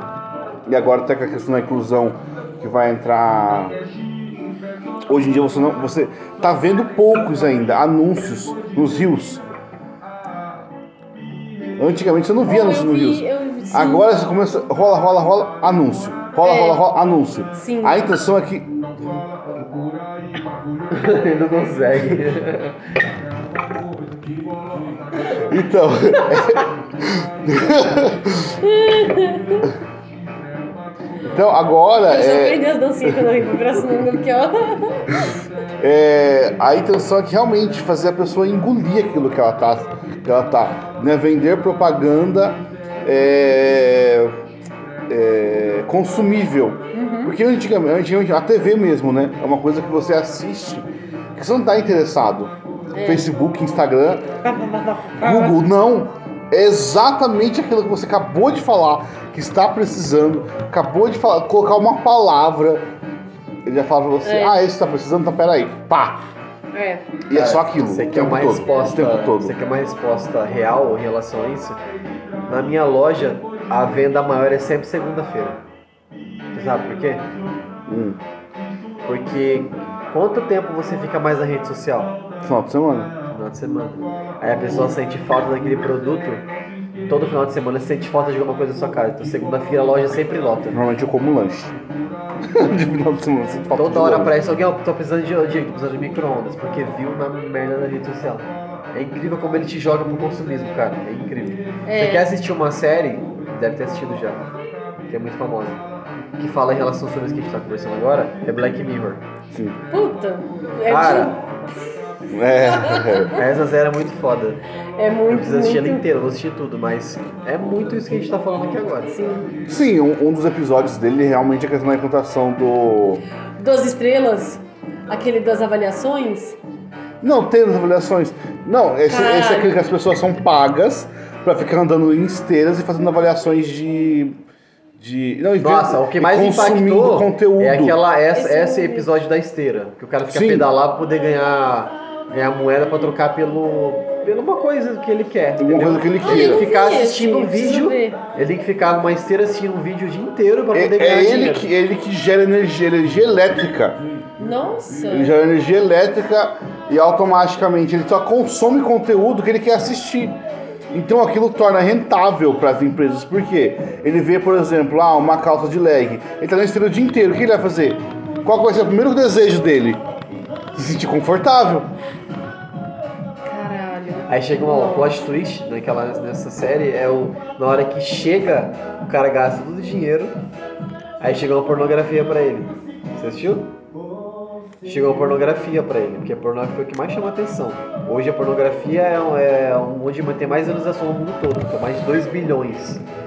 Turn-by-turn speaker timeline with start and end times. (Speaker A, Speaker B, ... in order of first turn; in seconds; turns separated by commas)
Speaker A: 0.7-3.8, Speaker A: 5.1-9.4, Speaker A: 11.8-18.7, Speaker B: 12.4-14.1, Speaker B: 16.4-16.8, Speaker B: 17.5-18.1, Speaker C: 20.9-22.8, Speaker A: 25.4-28.6, Speaker B: 26.1-26.6, Speaker B: 28.6-29.7, Speaker A: 31.2-33.5, Speaker B: 32.1-35.4, Speaker A: 35.8-44.4, Speaker A: 45.1-54.2, Speaker B: 46.9-47.4, Speaker B: 52.9-53.3, Speaker B: 54.2-55.6, Speaker A: 55.2-62.9, Speaker A: 63.6-66.2, Speaker B: 64.2-64.6, Speaker B: 66.7-67.1, Speaker A: 67.3-69.5, Speaker C: 67.3-71.8, Speaker C: 72.5-75.6, Speaker C: 76.5-77.3, Speaker A: 77.9-78.2, Speaker C: 79.0-82.2, Speaker A: 82.4-83.1, Speaker C: 83.3-86.5, Speaker C: 87.1-90.8, Speaker A: 90.7-91.8, Speaker A: 92.5-94.3, Speaker C: 93.8-104.5, Speaker B: 101.8-102.3, Speaker C: 105.1-105.8, Speaker C: 106.4-109.2, Speaker A: 109.5-109.8, Speaker B: 109.9-111.4, Speaker C: 110.9-111.4, Speaker A: 112.3-113.3, Speaker B: 112.7-113.3, Speaker C: 113.3-114.6, Speaker B: 115.0-116.0, Speaker C: 115.3-119.1, Speaker B: 119.1-119.6, Speaker A: 119.7-123.2, Speaker B: 123.6-126.6, Speaker A: 127.2-134.4, Speaker B: 129.1-129.8, Speaker A: 135.0-137.9, Speaker C: 135.6-151.7, Speaker B: 138.3-139.1, Speaker A: 140.3-140.7, Speaker A: 145.6-146.7, Speaker B: 146.2-148.2, Speaker A: 150.7-154.0, Speaker B: 154.4-155.3, Speaker A: 155.1-160.4, Speaker A: 160.9-170.0, Speaker A: 170.7-171.9, Speaker B: 173.4-175.2, Speaker C: 174.3-180.3, Speaker C: 181.2-183.7, Speaker C: 184.8-193.0